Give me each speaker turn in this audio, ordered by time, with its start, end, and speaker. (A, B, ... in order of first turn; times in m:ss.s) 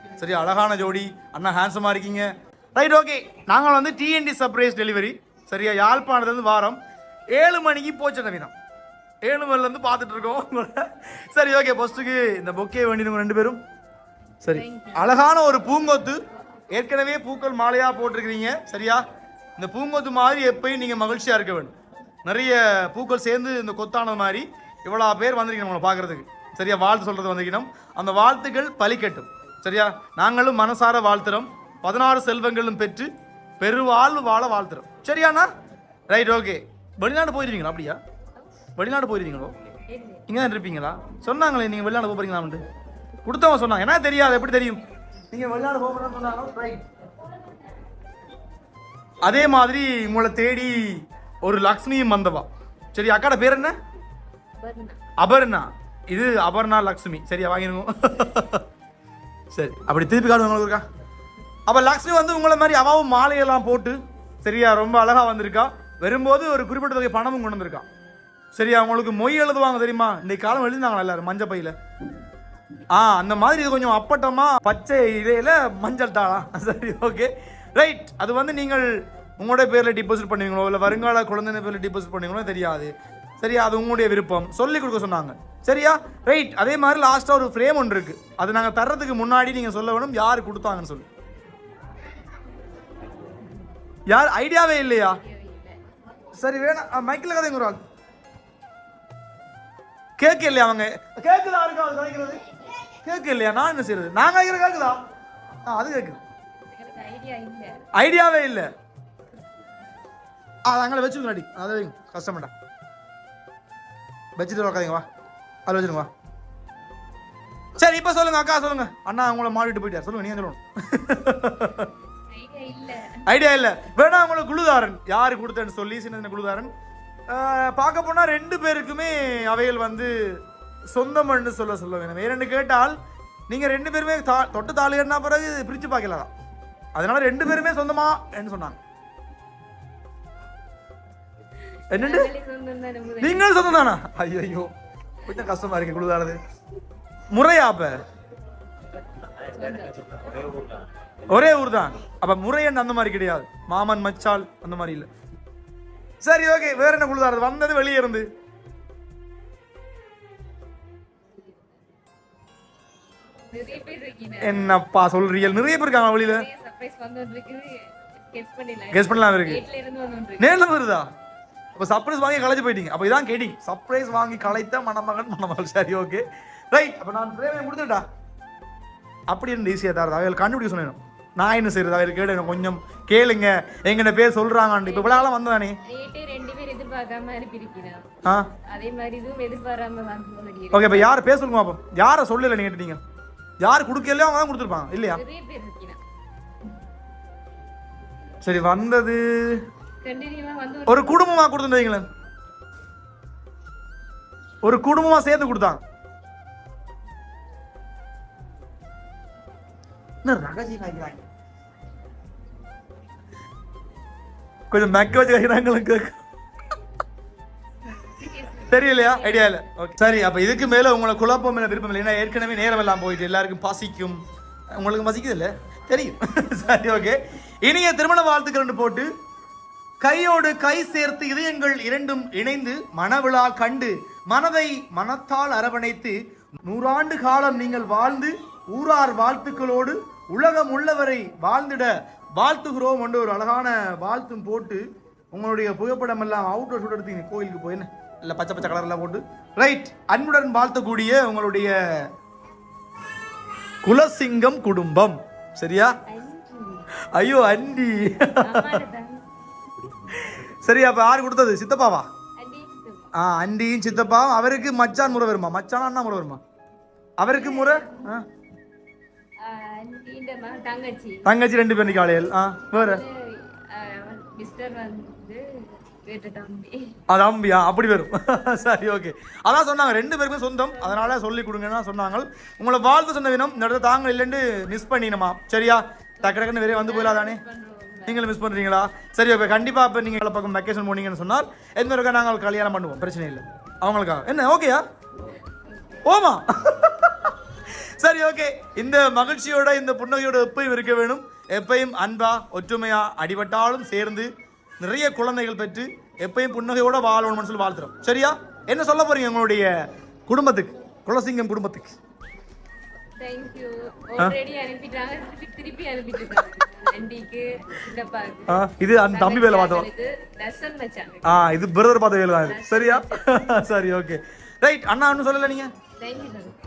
0:00.2-0:06.8 A
0:07.3-0:08.5 A
0:09.2-0:13.6 A
0:14.4-0:16.2 A
0:14.5-0:15.1 B
0:16.7-0:19.0 A
0:19.6-0:21.7 A
0:22.2-0:33.1 A
0:33.6-0:35.5 A
0:36.1-0:38.0 A
0:38.8-0:39.5 A
0:39.9-0:40.2 B
0:40.3-0:42.6 A
0:43.2-0:44.8 A
0:45.3-0:46.8 A
0:49.2-0:53.7 A
0:54.6-0:55.0 B
0:55.2-0:58.6 A
0:59.5-1:00.8 A
1:01.7-1:07.9 A
1:08.5-1:11.7 A
1:12.9-1:31.1 A
1:34.1-1:35.2 A
1:35.0-1:35.8 B
1:36.4-1:37.8 A
1:40.2-1:42.4 A
1:43.0-1:45.0 A
1:45.6-1:46.2 A
1:46.7-1:47.9 B
1:47.9-1:48.7 A
1:50.6-1:52.5 A
1:54.4-1:55.0 A
1:55.6-1:56.1 A
1:57.8-2:01.9 A
2:02.3-2:03.3 B
2:03.2-2:06.7 A
2:07.3-2:10.4 A
2:10.9-2:13.0 A
2:13.5-2:16.3 A
2:16.9-2:18.8 A
2:21.9-2:22.3 A
2:21.9-2:23.8 B
2:23.2-2:24.7 A
2:25.2-2:26.4 A
2:27.3-2:28.0 A
2:29.2-2:30.8 B
2:31.3-2:35.1 A
2:36.2-2:38.2 A
2:41.3-2:41.9 B
2:43.5-2:44.8 B
2:44.4-2:46.4 A
2:46.1-2:50.6 B
2:48.9-2:49.6 A
2:50.4-2:51.1 A
2:51.8-2:58.0 A
2:59.3-3:05.8 A
3:04.8-3:05.3 B
3:05.8-3:08.1 B
3:08.7-3:11.2 B
3:10.7-3:13.0 A
3:13.6-3:15.2 A
3:15.1-3:16.0 B
3:18.4-3:19.6 A
3:20.0-3:21.2 B
3:20.9-3:22.0 A
3:24.6-3:25.8 A
3:30.2-3:31.2 A
3:34.7-3:36.2 A
3:37.8-3:39.6 B
3:38.7-3:44.2 A
3:44.8-3:49.1 A
3:50.0-4:12.1 A
4:13.8-4:15.9 A
4:16.1-4:16.9 B
4:17.1-4:18.8 A
4:18.3-4:19.2 B
4:20.1-4:22.0 A
4:22.4-4:23.1 B
4:23.1-4:26.4 A
4:27.2-4:28.2 A
4:27.3-4:28.1 B
4:29.4-4:31.3 B
4:31.2-4:33.0 A
4:32.7-4:37.0 B
4:37.1-4:47.4 A
4:46.2-4:48.3 B
4:48.1-4:54.8 A
4:55.6-4:56.0 B
4:56.0-4:57.3 A
4:58.0-5:04.3 A
5:04.8-5:09.7 A
5:10.3-5:12.0 A
5:13.2-5:21.5 B
5:18.5-5:19.9 A
5:21.2-5:25.7 A
5:22.4-5:23.3 B
5:26.0-5:26.6 B